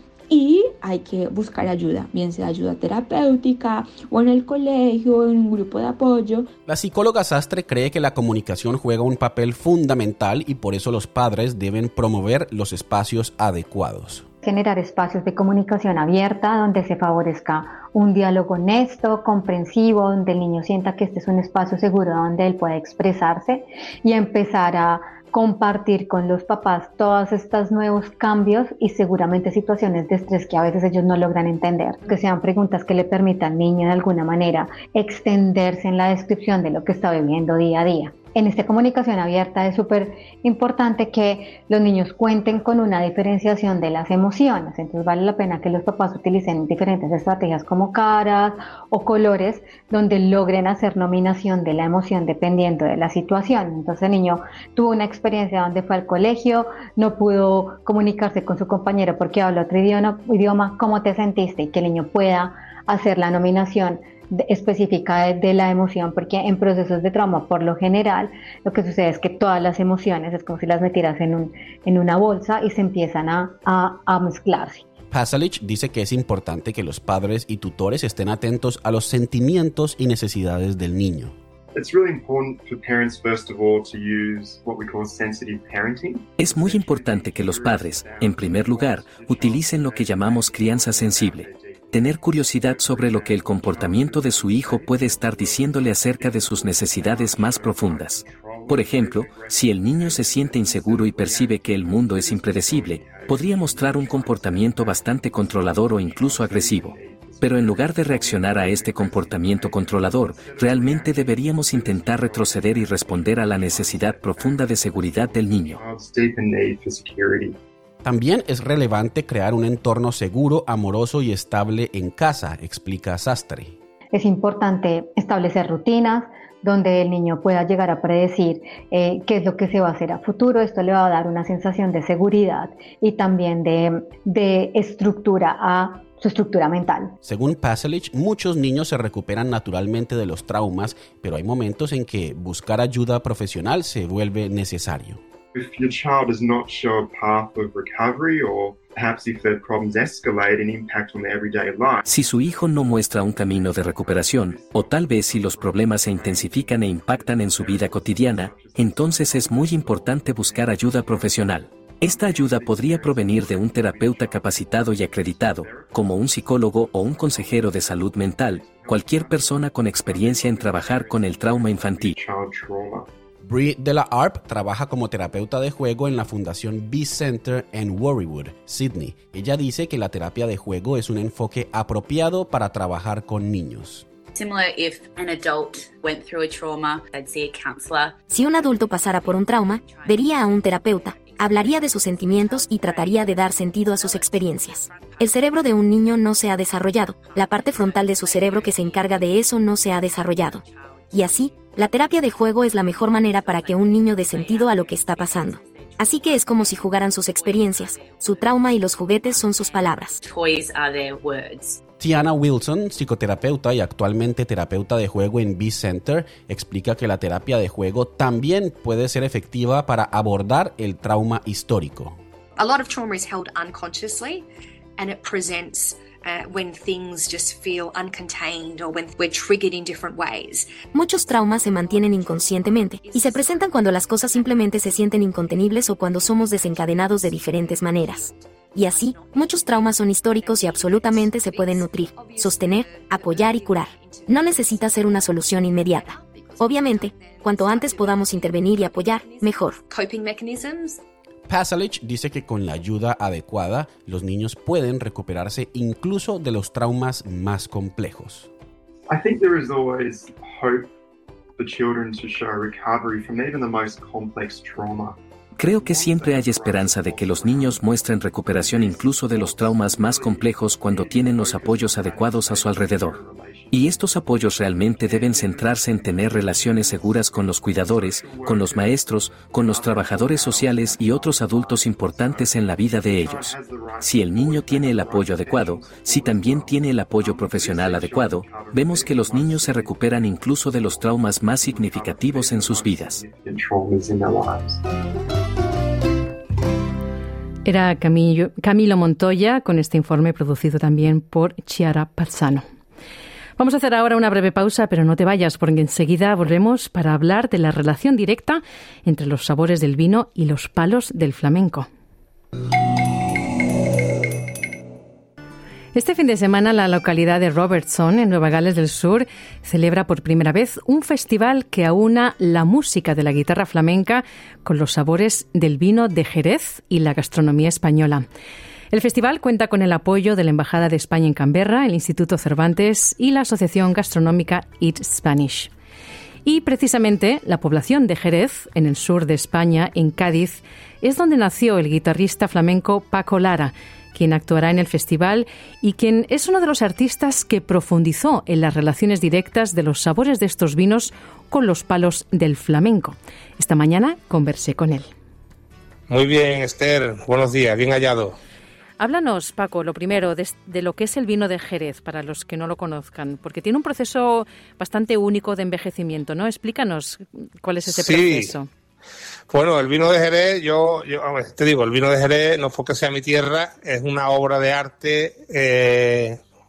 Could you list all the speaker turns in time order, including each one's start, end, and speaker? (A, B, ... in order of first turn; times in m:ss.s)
0:00.3-0:06.5 A
0:06.7-0:14.3 B
0:14.4-1:14.9 C
1:15.1-1:21.4 B
1:21.7-1:57.6 D
1:26.4-1:55.8 E
1:58.0-2:03.7 B
2:04.1-2:17.2 C
2:17.2-2:25.2 B
2:25.5-2:32.1 D
2:32.1-2:52.2 E
2:32.6-2:53.1 D
2:53.4-3:04.1 B
3:04.3-3:15.7 F
3:08.3-3:30.2 G
3:17.1-3:19.5 F
3:20.4-3:28.7 F
3:29.2-3:31.8 F
3:32.0-3:42.2 B
3:42.6-3:44.4 F
3:45.0-3:50.9 F
3:50.9-4:09.8 G
3:51.4-4:11.0 F
4:11.5-4:18.5 B
4:19.1-4:20.9 D
4:21.6-4:25.2 D
4:25.6-4:33.2 E
4:25.7-4:54.8 D
4:33.7-4:53.2 E
4:57.6-5:02.6 H
5:03.6-5:11.9 H
5:16.0-5:28.2 H
5:28.9-5:35.7 H
5:36.4-5:55.1 H
5:56.1-5:58.4 I
5:59.0-6:08.7 H
6:07.8-6:08.5 I
6:09.5-6:16.4 I